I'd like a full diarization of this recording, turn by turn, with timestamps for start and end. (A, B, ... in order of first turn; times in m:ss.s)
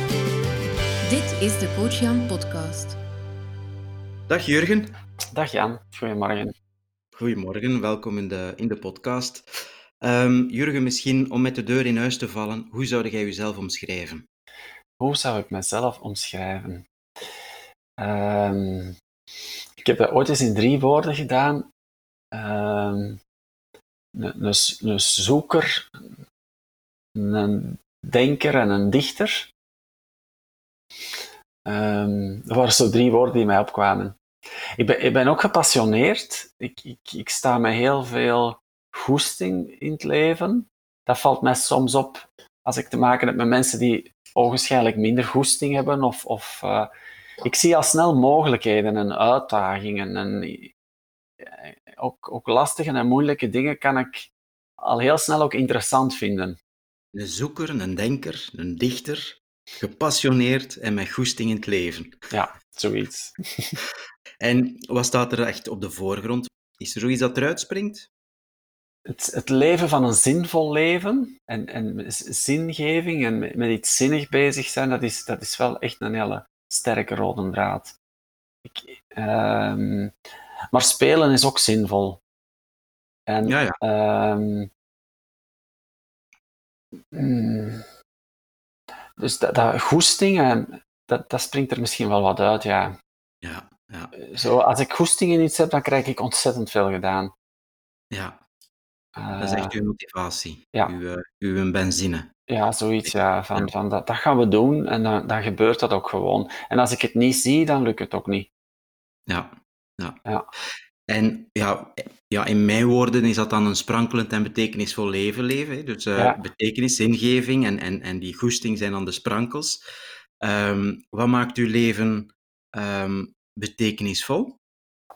0:01.0-0:03.0 A
0:04.3-0:05.0 B
0:05.3-0:06.5 C
0:07.2-0:09.5 B
0:10.0-0:14.3 B
0:15.0-0:16.8 C
0:18.0-0:19.0 C
0:19.8-0:21.7 C
0:22.3-0:23.2 C
0:24.2-0:25.9 C
0:27.2-0:29.5 C
0:31.6-0:34.2 C
0:34.8-0:46.9 C
0:47.4-0:50.7 C
0:51.4-0:56.6 C
0:57.1-1:02.2 B
1:02.3-1:03.8 C
1:04.4-1:08.1 B
1:09.1-1:18.0 C
1:18.7-1:20.1 C
1:20.7-1:22.2 C
1:23.3-1:24.7 C
1:23.5-1:23.8 B
1:27.1-1:27.8 C
1:29.2-1:33.0 C
1:33.4-1:34.1 B
1:34.2-1:37.3 C
1:38.1-1:38.4 B
1:39.2-1:39.8 C
1:39.4-1:42.3 B
1:42.5-1:48.5 C
1:49.3-1:50.2 B
1:51.1-1:59.8 B
2:00.4-2:04.6 B